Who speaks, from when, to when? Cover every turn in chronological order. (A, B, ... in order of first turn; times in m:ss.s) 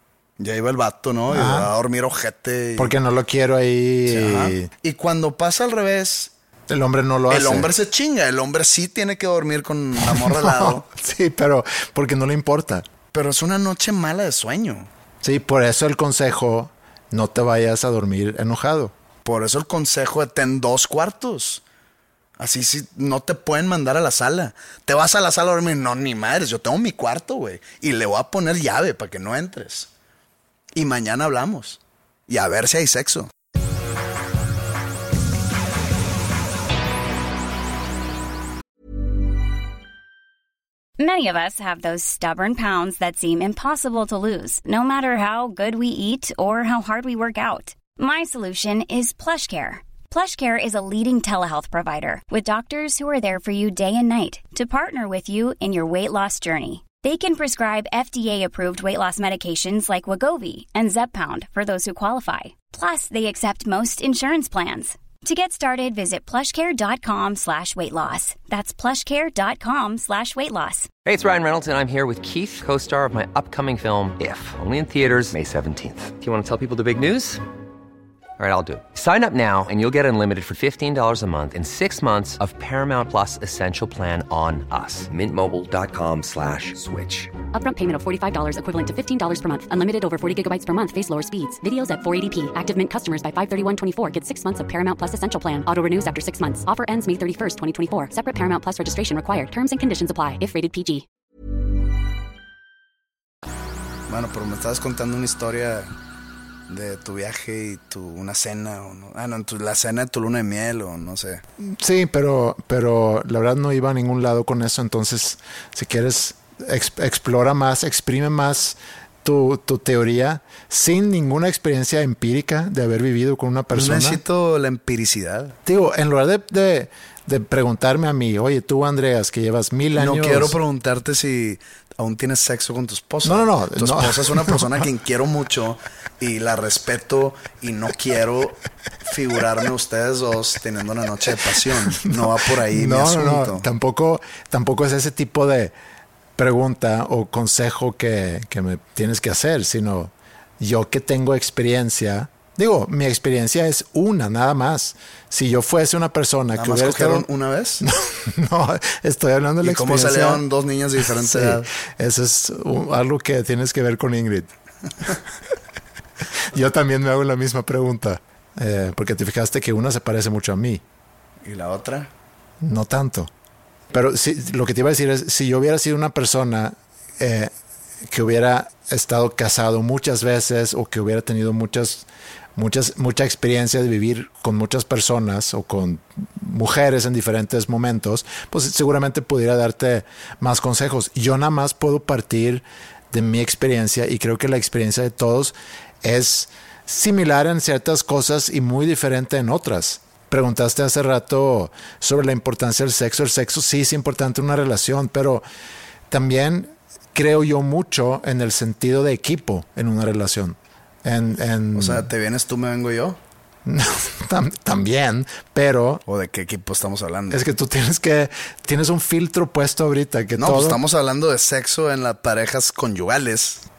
0:00.4-0:03.0 A
0:01.3-0:01.7 B
0:02.8-0:04.7 B
0:04.1-0:06.3 A
0:06.7-0:07.7 B
0:07.3-0:10.8 A
0:10.0-0:12.9 B
0:13.1-0:14.9 A
0:15.2-0:18.9 B
0:19.2-0:21.6 A
0:22.4-0:29.9 A
0:30.8-0:33.3 A
0:41.0-1:10.9 C
1:11.0-1:17.4 D
1:18.4-1:27.3 D
1:27.5-1:41.0 E
1:44.1-1:45.9 A
1:46.7-1:51.4 A
1:51.6-2:04.2 B
2:03.7-2:05.6 A
2:05.7-2:10.6 B
2:10.0-2:23.7 A
2:13.2-2:14.8 B
2:22.0-2:25.7 B
2:26.4-2:37.3 B
2:36.6-2:37.9 A
2:37.8-2:40.4 B
2:39.6-2:41.7 A
2:41.0-2:44.5 B
2:46.4-2:50.8 B
2:51.4-2:52.1 A
2:52.6-2:53.3 B
2:53.9-2:57.5 B
2:58.0-3:25.4 B
3:26.1-3:32.1 B
3:31.8-3:33.2 A
3:33.6-3:36.0 B
3:36.1-3:37.4 A
3:37.3-3:40.8 B
3:40.4-3:43.6 A